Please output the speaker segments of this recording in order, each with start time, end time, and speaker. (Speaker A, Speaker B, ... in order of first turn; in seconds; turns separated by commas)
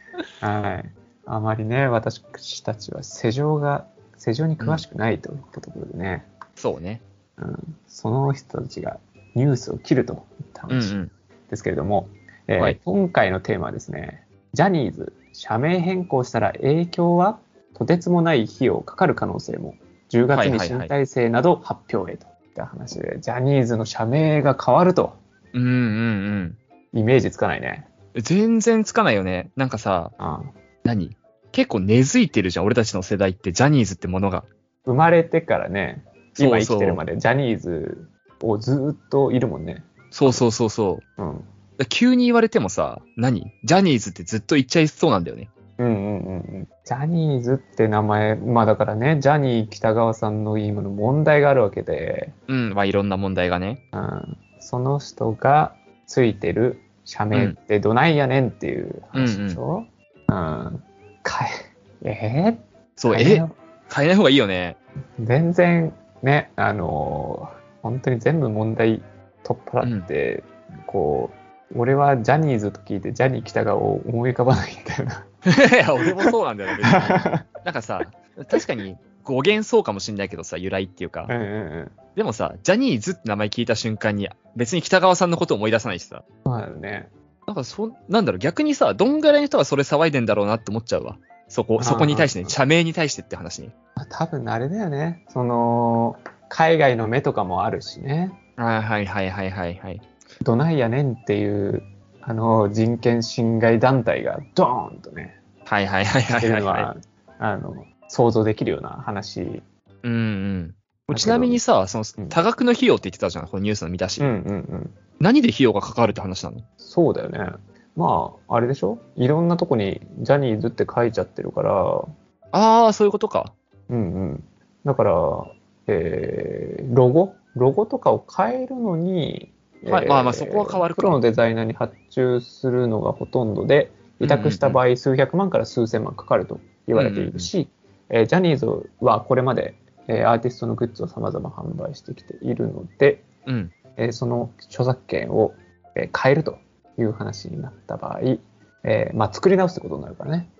Speaker A: 0.4-6.3, Speaker B: 6.6-7.0, Speaker A: 7.4-10.9, Speaker B: 10.7-11.1, Speaker A: 11.5-25.2, Speaker B: 20.3-20.9, Speaker B: 25.5-26.6, Speaker A: 26.9-27.9, Speaker B: 28.1-30.1, Speaker A: 30.2-30.5, Speaker B: 30.8-34.5, Speaker A: 34.9-40.4, Speaker B: 36.4-37.0, Speaker B: 40.1-41.0, Speaker A: 41.2-41.5, Speaker B: 41.8-45.5, Speaker A: 45.8-52.3, Speaker B: 52.5-53.8, Speaker A: 53.9-63.5, Speaker B: 57.3-57.6, Speaker B: 59.1-59.6, Speaker B: 63.0-64.8, Speaker A: 65.2-75.3, Speaker B: 69.8-70.1, Speaker B: 75.5-81.3, Speaker A: 76.8-77.5, Speaker A: 81.3-81.9, Speaker B: 82.2-86.2, Speaker A: 86.5-87.1, Speaker B: 87.5-93.7, Speaker A: 91.8-92.5, Speaker A: 94.0-98.4, Speaker B: 98.6-100.0, Speaker A: 100.4-105.4, Speaker B: 105.7-106.9, Speaker A: 106.3-109.6, Speaker B: 110.0-114.3, Speaker A: 111.1-111.6, Speaker A: 114.2-114.9, Speaker B: 115.2-116.6, Speaker A: 116.8-122.1, Speaker B: 122.5-123.5, Speaker A: 123.9-143.3, Speaker B: 129.9-131.2, Speaker B: 134.2-134.8, Speaker B: 136.9-137.5, Speaker B: 143.4-143.7, Speaker A: 144.0-150.5